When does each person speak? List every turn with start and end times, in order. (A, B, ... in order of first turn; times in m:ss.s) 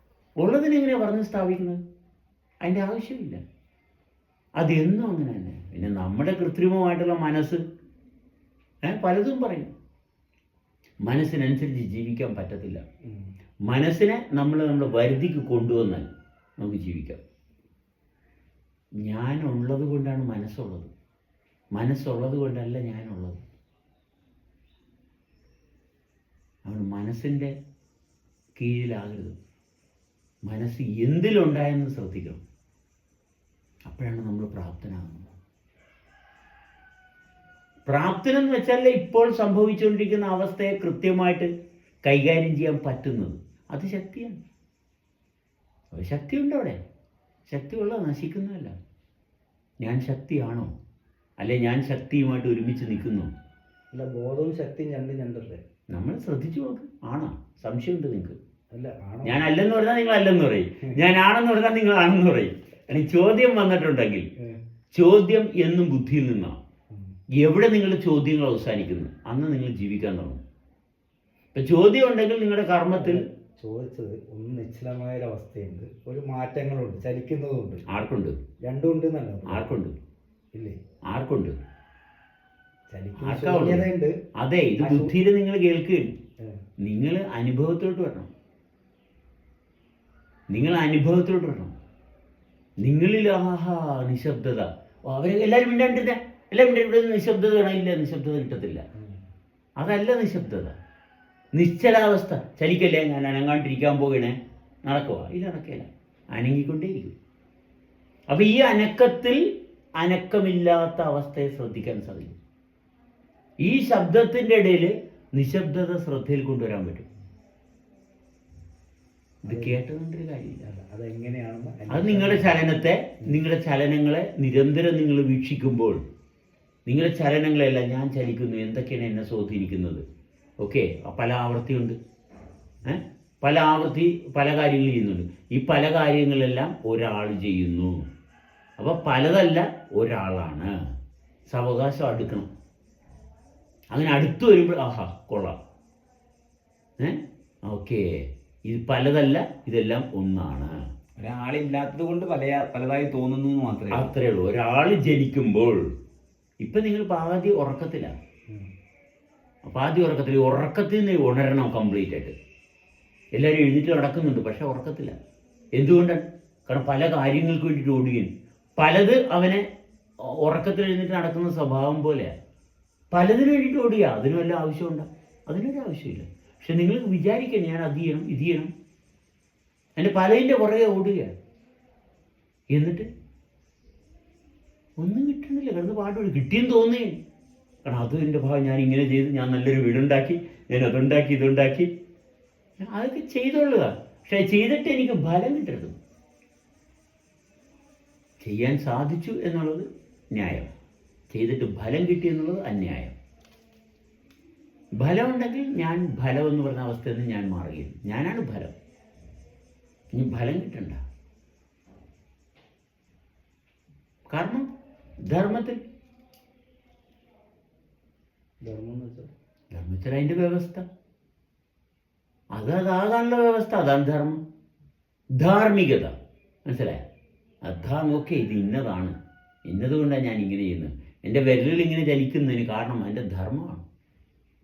0:00.4-0:01.8 A
0:02.6-0:03.4 A
0:04.6-0:07.6 A
0:08.8-0:09.7 A
0:11.0-0:12.8 A
0:13.0-0:13.3 B
0:13.7-0:17.2 A
0:19.0-0:20.9 A
0:21.7-0:23.4 A
0:26.6-0:27.6 A
0:28.6-0:29.4 A
0:30.5-0:32.4 A
0:33.8-0:35.3 A
0:37.9-0:41.5 A
0:42.0-0:44.4 A
0:45.9-0:46.8 A
0:47.5-0:48.7 A
0:49.8-0:50.7 A
0:51.4-0:53.3 A
0:53.9-0:55.6 B
0:55.9-0:58.4 A
0:58.7-0:59.5 B
0:59.2-1:04.3 A
1:04.9-1:06.6 A
1:07.4-1:10.4 A
1:11.5-1:13.2 A
1:13.0-1:17.8 B
1:17.9-1:18.4 A
1:18.7-1:19.7 B
1:19.5-1:19.9 A
1:21.1-1:21.6 A
1:22.9-1:24.1 B
1:23.2-1:26.1 A
1:24.8-1:25.1 B
1:26.8-1:28.3 A
1:30.5-1:31.7 A
1:32.8-1:38.8 A
1:39.0-1:39.2 B
1:39.8-1:40.8 A
1:41.5-1:47.2 A
1:48.3-1:49.4 A
1:50.0-1:52.4 A
1:53.6-1:57.0 A
1:59.4-2:00.7 A
1:59.5-1:59.8 B
2:00.6-2:02.6 B
2:01.9-2:06.0 A
2:06.9-2:10.0 A
2:10.6-2:12.0 A
2:12.8-2:18.0 A
2:18.8-2:20.7 A
2:21.5-2:22.5 A
2:23.9-2:25.6 A
2:27.0-2:28.1 A
2:28.6-2:30.7 A
2:31.2-2:34.1 C
2:33.9-2:35.8 A
2:36.6-2:38.1 A
2:39.6-2:42.3 A
2:43.4-2:45.2 A
2:45.8-2:49.6 A
2:50.2-2:52.3 A
2:53.1-2:58.7 A
3:00.0-3:01.3 A
3:02.7-3:03.1 A
3:05.0-3:07.2 A
3:07.9-3:11.9 A
3:12.8-3:16.0 A
3:18.4-3:20.7 A
3:21.3-3:23.1 A
3:25.0-3:28.7 A
3:30.1-3:31.0 A
3:34.3-3:34.7 A
3:35.3-3:35.8 A
3:38.6-3:39.3 B
3:39.7-3:40.8 A
3:42.5-3:44.4 A
3:45.4-3:46.1 A
3:46.6-3:47.0 A
3:47.6-3:53.8 A